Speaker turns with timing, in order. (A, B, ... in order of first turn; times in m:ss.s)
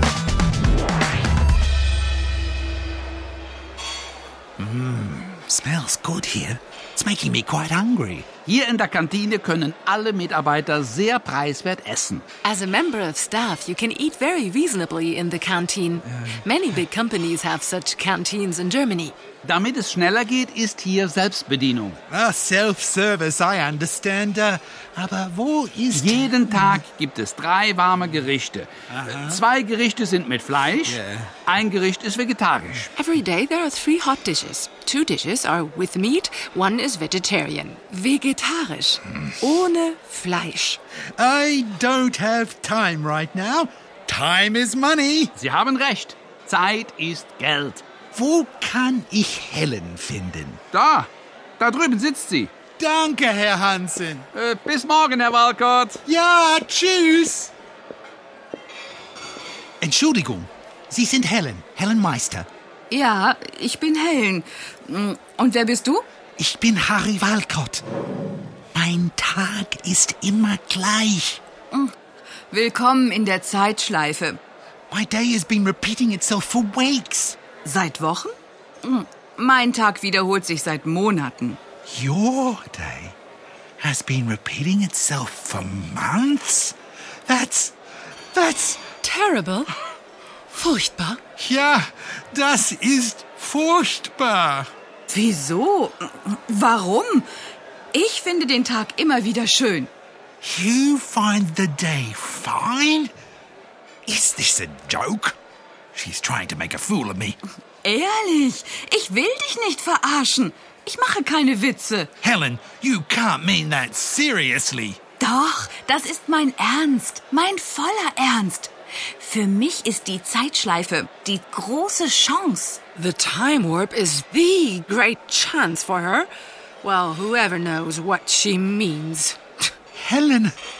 0:04.6-0:08.3 A
0:08.4-0:12.2 B
0:12.4-0:19.2 C
0:19.4-0:22.0 B
0:22.1-0:26.8 A
0:25.9-0:32.9 B
0:28.9-0:29.4 A
0:30.8-0:31.4 A
0:33.0-0:40.8 C
0:41.2-0:45.3 A
0:45.4-0:47.8 B
0:48.1-0:50.6 A
0:50.7-0:52.5 B
0:52.8-0:54.3 A
0:54.3-0:56.0 B
0:56.0-0:57.5 A
0:59.8-1:02.5 A
1:02.9-1:06.0 D
1:06.4-1:07.8 A
1:08.7-1:11.4 A
1:12.5-1:14.4 D
1:14.9-1:17.4 A
1:17.6-1:21.6 D
1:21.8-1:23.2 A
1:23.8-1:26.8 A
1:27.3-1:27.7 A
1:28.3-1:28.8 A
1:29.0-1:29.7 C
1:30.5-1:31.2 C
1:31.4-1:34.7 A
1:35.1-1:37.3 D
1:37.9-1:39.9 D
1:40.4-1:43.1 A
1:44.0-1:45.4 A
1:45.9-1:47.4 A
1:47.8-1:52.1 D
1:52.2-1:55.0 A
1:55.2-2:02.8 D
2:02.9-2:06.3 C
2:06.8-2:09.4 C
2:09.9-2:10.5 A